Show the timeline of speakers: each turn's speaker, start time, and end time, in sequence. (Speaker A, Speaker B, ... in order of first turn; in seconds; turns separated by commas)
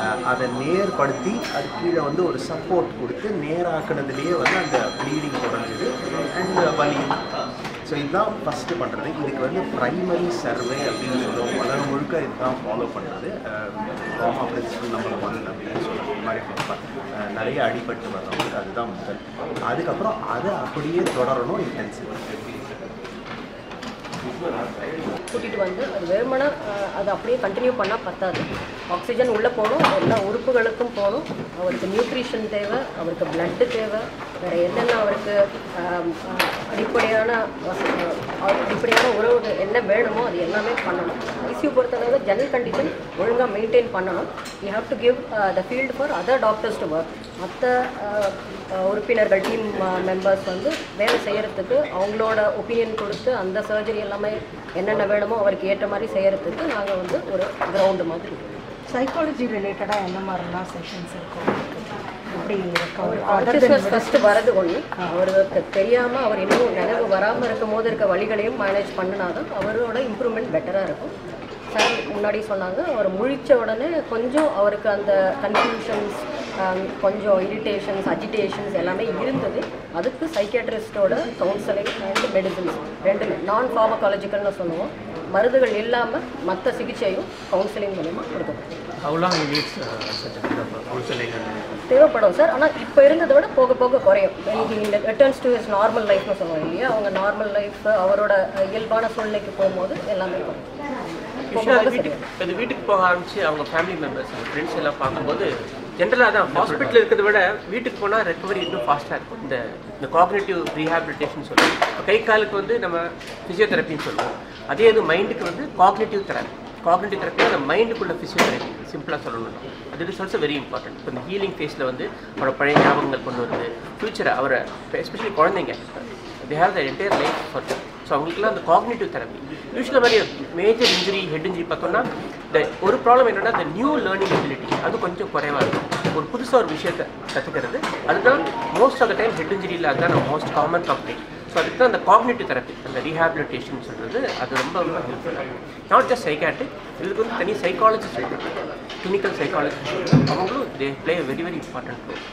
Speaker A: 0.3-7.2, Speaker A: 7.9-22.1, Speaker B: 25.3-58.5, Speaker C: 58.9-65.1, Speaker B: 63.0-71.1, Speaker B: 71.7-88.7, Speaker D: 89.0-91.6, Speaker B: 91.9-100.7, Speaker E: 101.4-148.4, Speaker B: 101.5-102.2, Speaker D: 106.5-107.0, Speaker E: 149.0-152.2